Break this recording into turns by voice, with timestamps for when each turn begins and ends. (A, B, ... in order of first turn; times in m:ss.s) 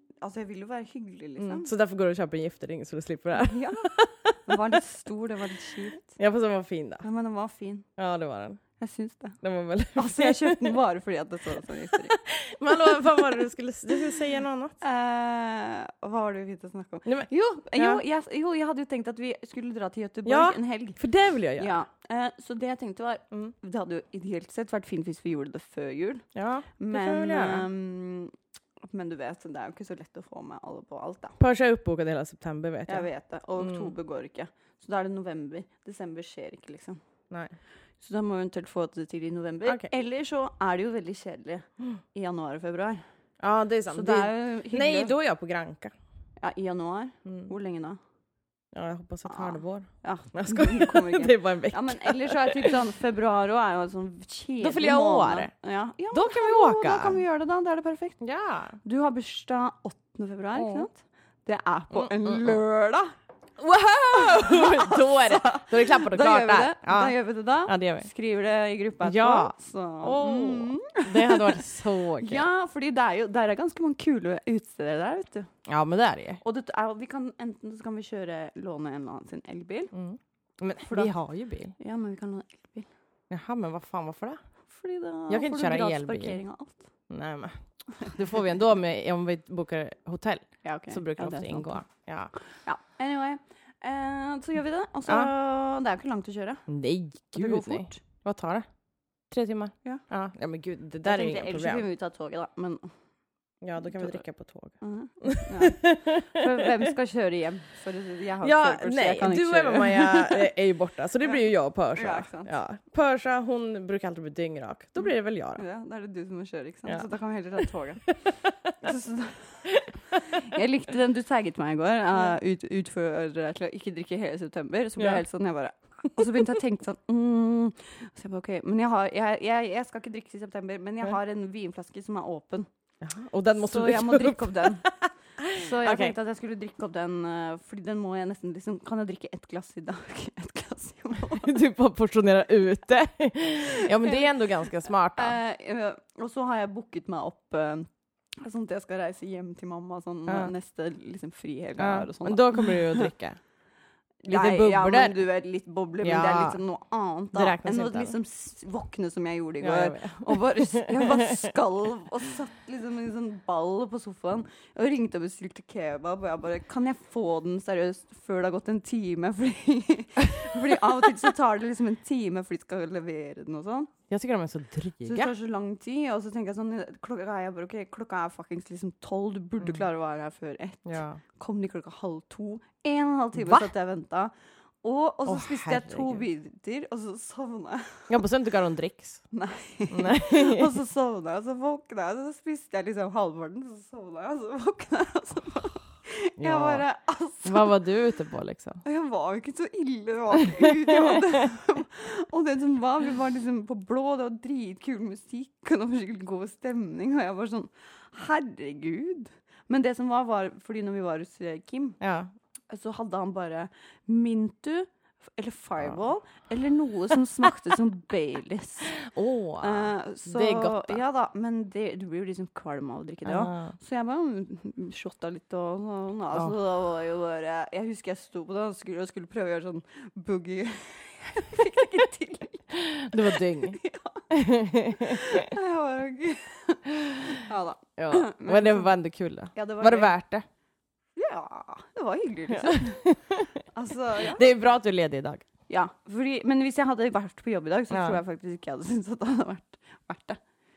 0:00.2-0:01.7 A
0:01.4-0:04.8 B
0:03.3-0:06.2 A
0:06.1-0:07.0 B
0:07.0-0:07.8 A
0:08.0-0:08.6 B
0:08.8-0:09.4 A
0:09.4-0:10.8 B
0:09.9-0:12.2 A
0:11.7-0:14.8 B
0:12.9-0:13.2 A
0:14.8-0:21.0 A
0:17.0-0:18.0 B
0:20.2-0:21.7 B
0:21.6-0:28.3 A
0:26.3-0:27.7 B
0:28.9-0:31.4 A
0:31.4-0:33.1 B
0:32.9-0:37.0 A
0:33.6-0:33.9 B
0:38.0-0:43.0 A
0:43.4-0:45.9 B
0:43.9-0:45.1 A
0:46.4-0:48.0 A
0:47.2-0:47.5 B
0:48.7-0:52.7 B
0:49.3-0:58.2 A
0:54.6-0:55.5 B
0:56.1-0:57.2 B
0:58.2-0:58.8 B
0:58.8-1:03.1 A
1:00.5-1:00.9 B
1:01.9-1:02.6 B
1:03.6-1:08.1 B
1:03.9-1:15.5 A
1:09.0-1:12.4 B
1:15.6-1:16.4 B
1:16.4-1:19.9 A
1:19.9-1:21.7 B
1:20.8-1:21.1 A
1:21.8-1:22.9 A
1:23.3-1:24.4 B
1:24.7-1:26.9 A
1:25.3-1:26.4 B
1:27.1-1:32.3 B
1:30.6-1:31.8 A
1:32.6-1:36.7 A
1:36.7-1:38.6 B
1:37.3-1:38.0 A
1:39.3-1:41.8 B
1:41.0-1:42.9 A
1:43.6-1:46.7 B
1:44.8-1:50.5 A
1:48.4-1:55.6 B
1:51.9-1:52.5 A
1:55.6-2:12.7 A
1:58.1-1:58.7 B
1:59.7-2:00.4 B
2:13.0-2:16.1 B
2:13.5-2:14.9 A
2:15.5-2:21.5 A
2:21.3-2:25.4 B
2:24.0-2:24.3 A
2:25.1-2:27.9 A
2:28.4-2:33.1 A
2:30.3-2:30.5 B
2:31.8-2:33.4 B
2:34.2-2:53.9 A
2:34.3-2:35.2 B
2:36.0-2:36.6 B
2:37.3-2:38.2 B
2:39.6-2:41.5 B
2:54.1-2:55.3 B
2:55.0-3:08.2 A
3:00.8-3:01.2 B
3:03.4-3:03.7 B
3:05.2-3:06.2 B
3:08.1-3:09.2 B
3:09.3-3:17.7 A
3:09.9-3:10.7 B
3:16.4-3:16.8 B
3:17.4-3:18.8 B
3:18.8-3:32.0 A
3:20.7-3:21.2 B
3:32.0-3:32.3 B
3:32.7-3:39.0 A
3:39.0-3:41.0 B
3:39.6-3:54.3 A
3:43.2-3:43.7 B
3:52.7-3:53.8 B
3:54.3-3:55.5 B
3:54.8-3:58.9 A
3:58.0-4:00.4 B
3:59.5-4:00.2 A
4:01.2-4:03.1 A
4:02.5-4:03.5 B
4:03.7-4:04.5 A
4:04.2-4:05.4 B
4:05.7-4:10.4 A
4:07.9-4:08.2 B